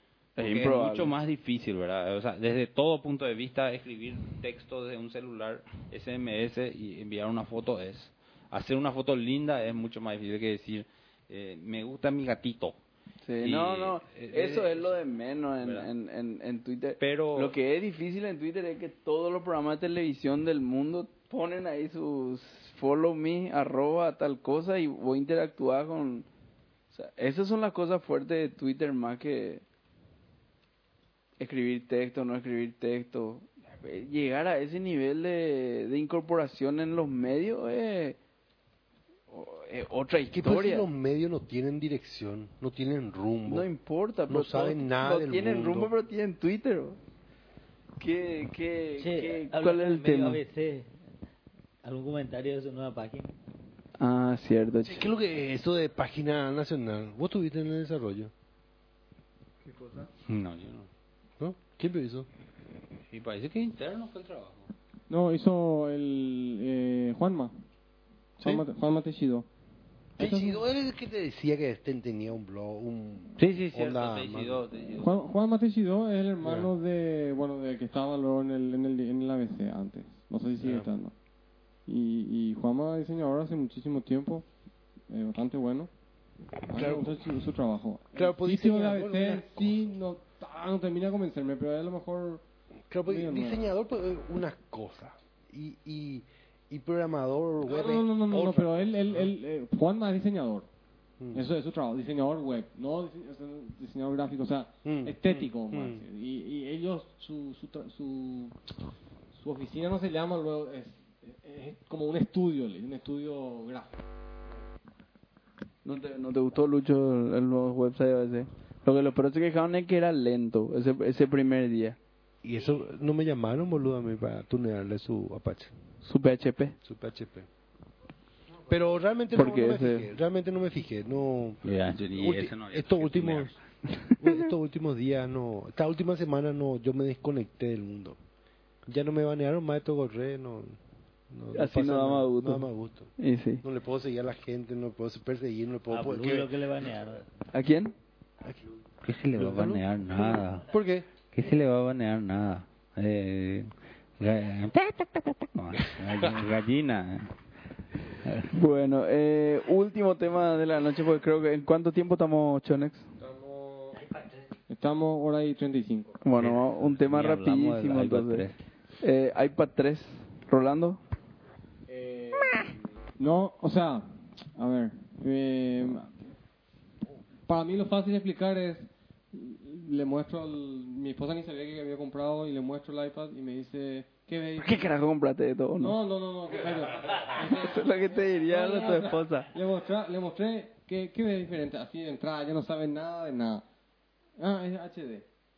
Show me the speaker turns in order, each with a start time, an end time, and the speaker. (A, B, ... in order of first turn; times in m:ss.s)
0:00.4-0:01.1 A
0:00.4-0:12.8 B
0:13.2-0:26.3 A
0:13.4-0:14.9 B
0:15.6-0:15.9 B
0:17.0-0:17.5 B
0:26.9-0:29.6 A
0:31.4-0:38.2 A
0:39.3-0:40.9 A
0:40.3-0:43.7 C
0:43.5-0:47.0 A
0:44.3-0:45.9 C
0:48.0-0:50.4 A
0:49.0-0:50.9 D
0:51.8-0:53.3 D
0:54.0-0:55.1 A
0:54.8-0:58.3 C
0:59.7-1:00.1 A
1:00.3-1:00.9 B
1:01.4-1:02.3 C
1:03.1-1:04.7 B
1:05.1-1:07.5 E
1:08.4-1:09.5 E
1:10.2-1:10.6 E
1:10.2-1:14.6 C
1:13.4-1:15.2 B
1:15.0-1:21.1 E
1:16.4-1:16.7 C
1:20.6-1:20.9 C
1:21.9-1:24.4 E
1:25.1-1:25.9 E
1:26.7-1:32.4 E
1:26.7-1:27.2 C
1:28.2-1:29.9 C
1:32.9-1:39.4 C
1:33.1-1:33.7 E
1:37.7-1:40.7 E
1:41.2-1:41.4 C
1:41.3-1:48.6 E
1:44.8-1:46.0 C
1:49.4-1:54.0 E
1:55.8-2:02.0 A
2:02.4-2:05.7 C
2:06.0-2:06.8 A
2:06.8-2:07.5 C
2:08.7-2:13.6 C
2:09.4-2:10.1 A
2:11.6-2:13.6 B
2:14.2-2:18.2 C
2:18.9-2:20.8 C
2:21.3-2:23.1 C
2:21.5-2:23.6 A
2:23.6-2:26.6 C
2:25.9-2:27.3 D
2:27.5-2:27.9 A
2:29.0-2:30.7 B
2:29.4-2:31.1 C
2:31.3-2:37.3 B
2:38.1-2:38.5 B
2:38.5-2:43.1 A
2:43.2-2:44.0 E
2:44.0-2:44.5 D
2:44.7-2:46.2 E
2:46.2-2:48.4 A
2:46.4-2:48.6 B
2:49.0-2:51.0 A
2:51.9-2:56.1 E
2:57.5-3:04.9 E
3:04.6-3:06.0 A
3:05.8-3:13.6 E
3:07.4-3:09.5 A
3:14.4-3:15.3 E